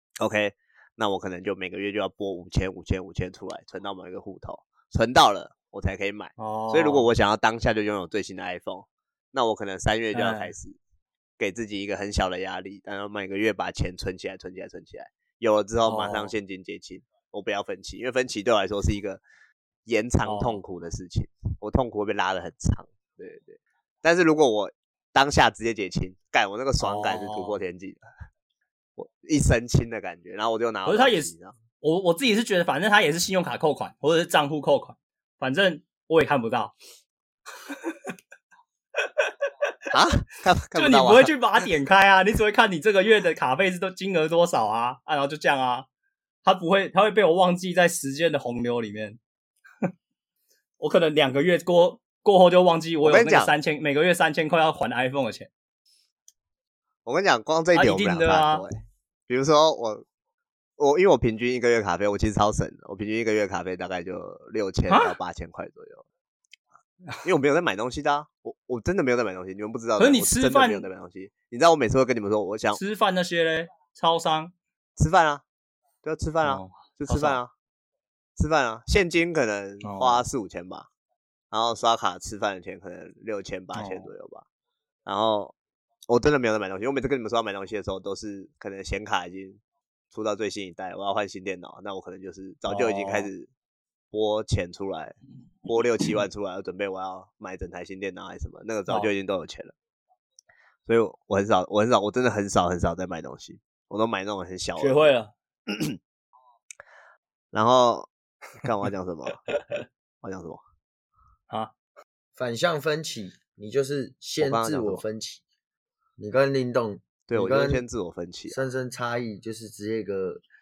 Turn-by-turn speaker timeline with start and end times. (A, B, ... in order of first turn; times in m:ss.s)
0:00.2-0:10.8 A
0:06.4-0:07.1 B
0:10.1-0:10.5 B
0:11.4-0:19.2 A
0:15.8-0:16.3 B
0:19.9-0:28.0 A
0:20.2-0:20.6 B
0:26.8-0:27.6 B
0:29.0-0:31.6 A
0:30.9-0:36.7 B
0:39.9-0:41.3 A
0:40.7-0:45.9 B
0:46.4-0:49.2 B
0:50.8-0:55.5 B
0:53.0-0:53.5 A
0:57.0-0:58.7 A
0:57.7-0:58.6 B
0:59.3-1:00.0 A
1:00.8-1:06.0 A
1:04.9-1:05.1 B
1:07.2-1:12.8 A
1:10.0-1:10.9 B
1:12.7-1:14.5 B
1:15.0-1:15.4 A
1:16.0-1:17.5 A
1:16.4-1:17.4 B
1:18.4-1:20.9 A
1:19.8-1:20.2 B
1:21.5-1:24.4 A
1:23.7-1:24.1 B
1:25.0-1:25.5 A
1:26.1-1:33.5 A
1:32.7-1:33.3 B
1:34.1-1:39.7 A
1:40.9-1:45.1 A
1:44.8-1:45.3 B
1:45.7-1:46.0 A
1:47.5-1:49.4 A
1:49.5-1:49.8 B
1:50.2-1:50.6 A
1:52.4-1:55.4 C
1:54.4-1:55.0 A
1:56.2-1:57.8 C
1:57.3-1:58.6 A
1:58.5-2:00.4 C